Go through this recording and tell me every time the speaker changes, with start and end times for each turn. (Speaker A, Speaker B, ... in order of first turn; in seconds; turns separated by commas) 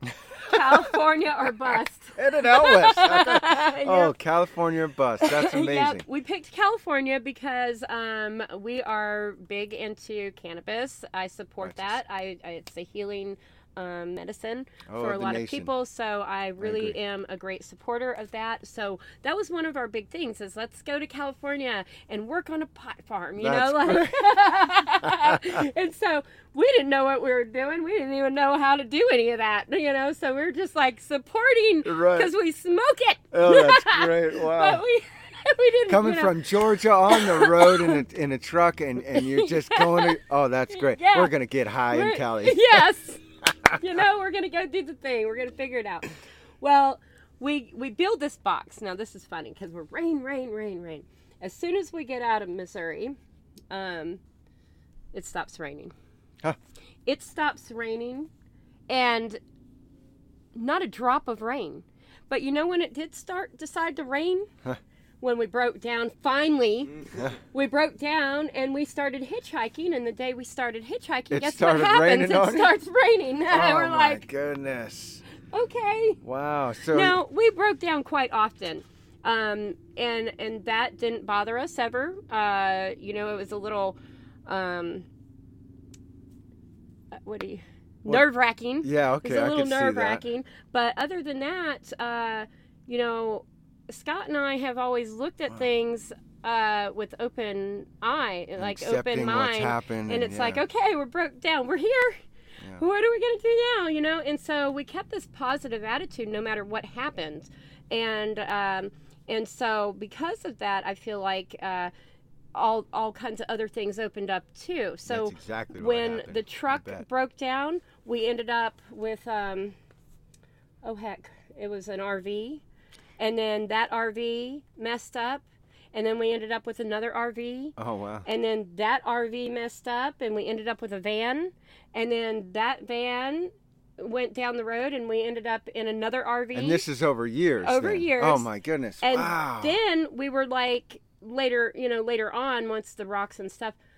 Speaker A: 0.1-1.0, Speaker B: 0.3-4.1, Speaker A: 2.1-6.0, Speaker B: 5.2-38.0, Speaker A: 11.6-11.9, Speaker A: 14.9-15.7, Speaker A: 16.6-17.0, Speaker A: 23.4-24.3, Speaker A: 25.1-25.6, Speaker A: 31.8-32.3, Speaker A: 33.3-34.8, Speaker A: 35.9-42.7, Speaker B: 39.1-40.2, Speaker B: 40.7-41.3, Speaker B: 41.9-53.2, Speaker B: 53.7-54.2, Speaker B: 55.1-55.9, Speaker B: 57.0-58.3, Speaker B: 58.9-59.4, Speaker B: 60.5-64.5, Speaker B: 65.2-74.2, Speaker A: 71.3-72.8, Speaker A: 73.5-75.2, Speaker B: 75.5-76.2, Speaker A: 76.2-77.2, Speaker B: 76.9-85.1, Speaker B: 87.1-102.2, Speaker A: 88.8-90.2, Speaker A: 98.6-100.6, Speaker B: 102.8-111.9, Speaker B: 112.5-119.8, Speaker A: 115.0-117.0, Speaker B: 120.8-122.6, Speaker B: 123.2-136.8, Speaker A: 127.8-128.3, Speaker A: 136.5-139.8, Speaker B: 137.6-138.5, Speaker B: 139.0-143.8